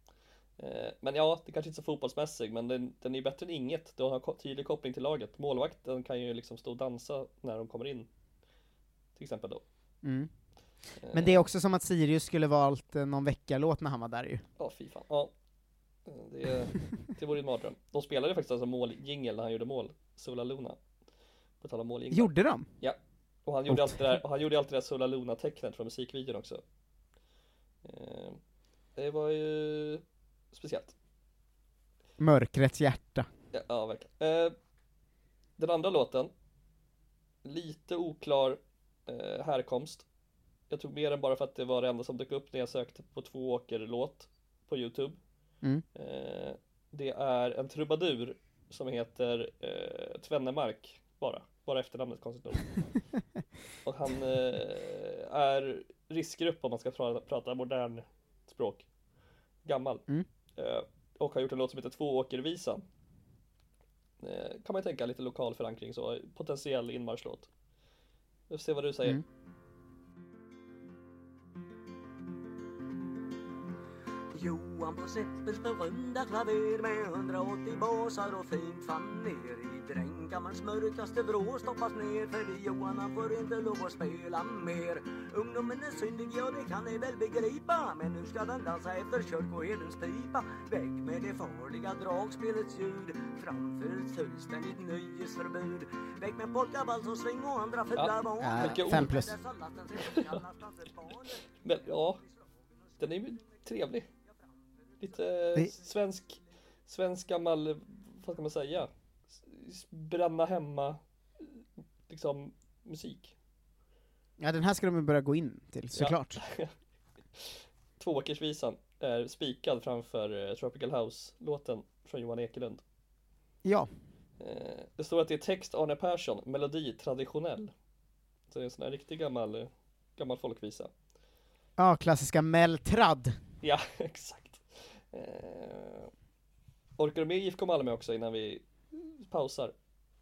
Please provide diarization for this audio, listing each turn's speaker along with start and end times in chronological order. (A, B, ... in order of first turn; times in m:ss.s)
0:00.6-0:08.1 A
0:09.2-0:09.6 A
0:10.0-0:10.3 B
0:11.0-0:11.4 A
0:11.1-0:14.4 B
0:14.6-0:15.3 A
0:16.1-0:20.8 A
0:21.6-0:26.6 A
0:22.1-0:22.7 B
0:23.7-0:24.2 B
0:27.8-0:28.4 A
0:29.0-0:30.9 A
0:32.2-0:33.3 B
0:33.5-0:34.6 A
0:35.6-0:36.3 A
0:37.4-0:40.0 A
0:40.7-0:45.2 A
0:46.0-0:52.7 A
0:53.9-0:58.9 A
0:59.6-1:00.0 A
1:00.6-1:02.8 A
1:04.2-1:07.5 A
1:08.5-1:09.2 A
1:14.3-1:42.2 C
1:38.0-1:39.2 A
1:38.4-1:39.4 B
1:40.0-1:40.4 A
1:41.6-1:42.2 A
1:43.0-1:44.1 A
1:45.0-1:51.0 A
1:51.6-1:53.3 A
1:54.4-1:56.4 B
1:56.0-1:56.7 A
1:57.4-2:02.8 A
2:03.6-2:03.9 B
2:04.4-2:07.7 A
2:08.5-2:10.9 A
2:11.8-2:13.4 B
2:13.6-2:16.1 A
2:17.0-2:18.6 A
2:19.2-2:19.7 A